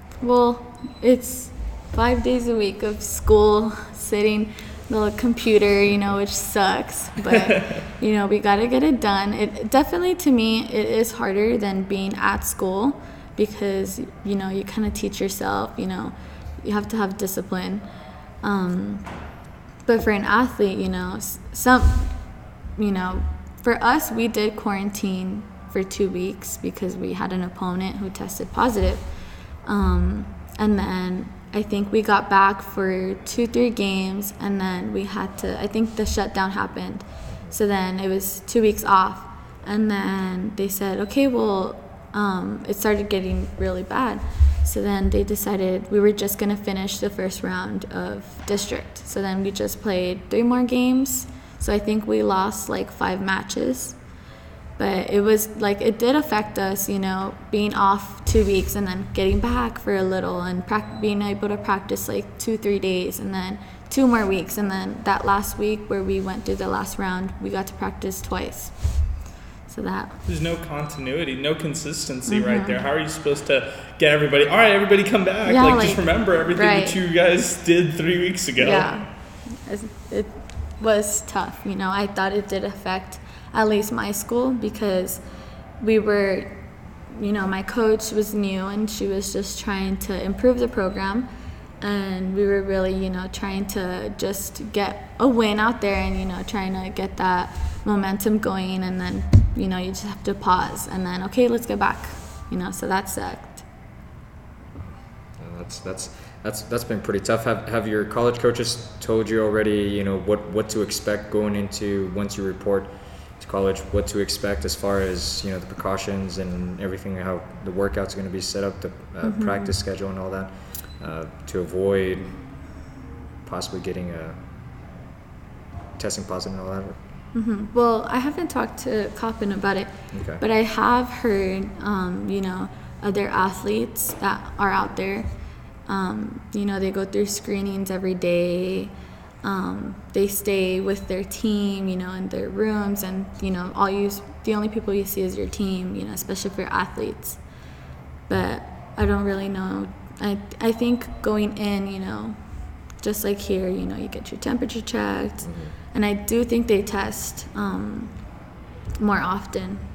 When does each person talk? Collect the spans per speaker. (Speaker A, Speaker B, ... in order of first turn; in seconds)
Speaker A: 0.2-17.8, 18.4-19.0, 19.9-22.1, 22.8-29.0, 29.6-54.0, 54.8-68.7, 69.7-70.2, 72.3-72.8, 75.4-77.0, 78.6-85.2, 85.8-86.6, 87.1-91.3, 91.8-103.7, 119.2-119.8, 127.3-135.3, 135.9-147.4, 148.3-152.4, 153.0-158.1, 159.0-159.8
Speaker B: 70.3-78.9
Speaker C: 105.4-122.4, 123.4-124.4, 126.0-127.0, 130.1-130.4, 155.4-155.7